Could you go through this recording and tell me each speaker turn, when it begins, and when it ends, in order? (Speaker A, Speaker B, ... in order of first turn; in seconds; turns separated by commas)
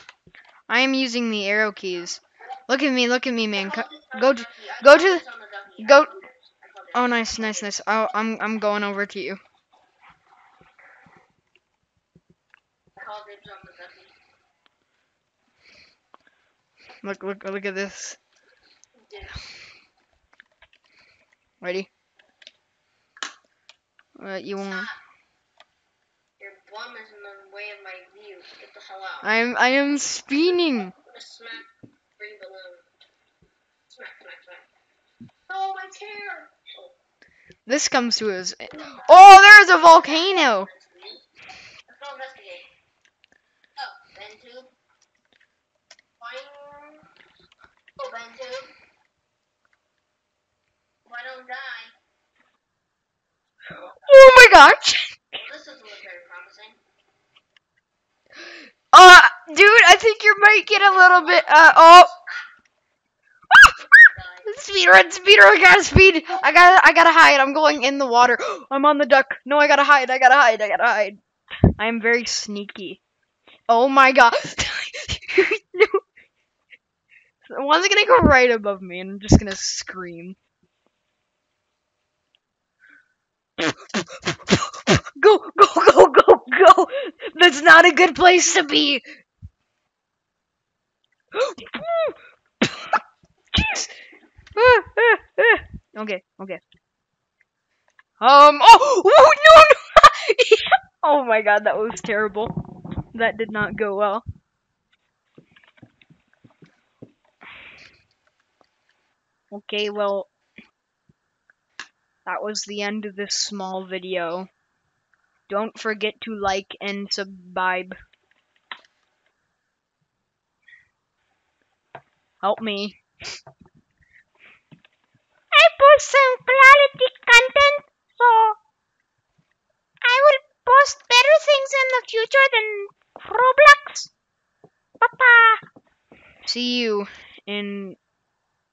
Speaker A: 0.7-5.2, Speaker B: 3.6-7.8, Speaker A: 5.8-6.1, Speaker A: 6.9-9.4, Speaker B: 13.0-14.2, Speaker A: 17.0-18.2, Speaker B: 18.9-19.4, Speaker A: 21.6-21.9, Speaker A: 24.2-24.9, Speaker B: 24.6-25.0, Speaker B: 26.4-29.3, Speaker A: 29.2-30.9, Speaker B: 30.9-32.9, Speaker B: 33.9-34.7, Speaker B: 35.5-37.0, Speaker A: 37.7-40.7, Speaker B: 38.7-41.2, Speaker B: 41.9-42.7, Speaker B: 43.8-44.7, Speaker B: 46.2-47.1, Speaker B: 48.0-48.8, Speaker B: 51.0-52.0, Speaker A: 54.0-55.2, Speaker B: 55.4-56.8, Speaker A: 58.9-62.1, Speaker B: 60.9-62.4, Speaker A: 63.5-63.8, Speaker B: 63.9-64.6, Speaker A: 64.5-71.2, Speaker A: 71.8-73.0, Speaker A: 73.7-76.0, Speaker A: 77.5-80.4, Speaker A: 83.6-89.0, Speaker A: 91.3-93.0, Speaker A: 93.5-93.9, Speaker A: 94.6-96.6, Speaker A: 98.2-104.2, Speaker A: 109.5-110.3, Speaker A: 112.3-114.5, Speaker A: 115.5-118.0, Speaker A: 122.4-123.0, Speaker A: 125.5-128.6, Speaker A: 130.0-134.1, Speaker A: 135.0-135.6, Speaker A: 136.4-138.0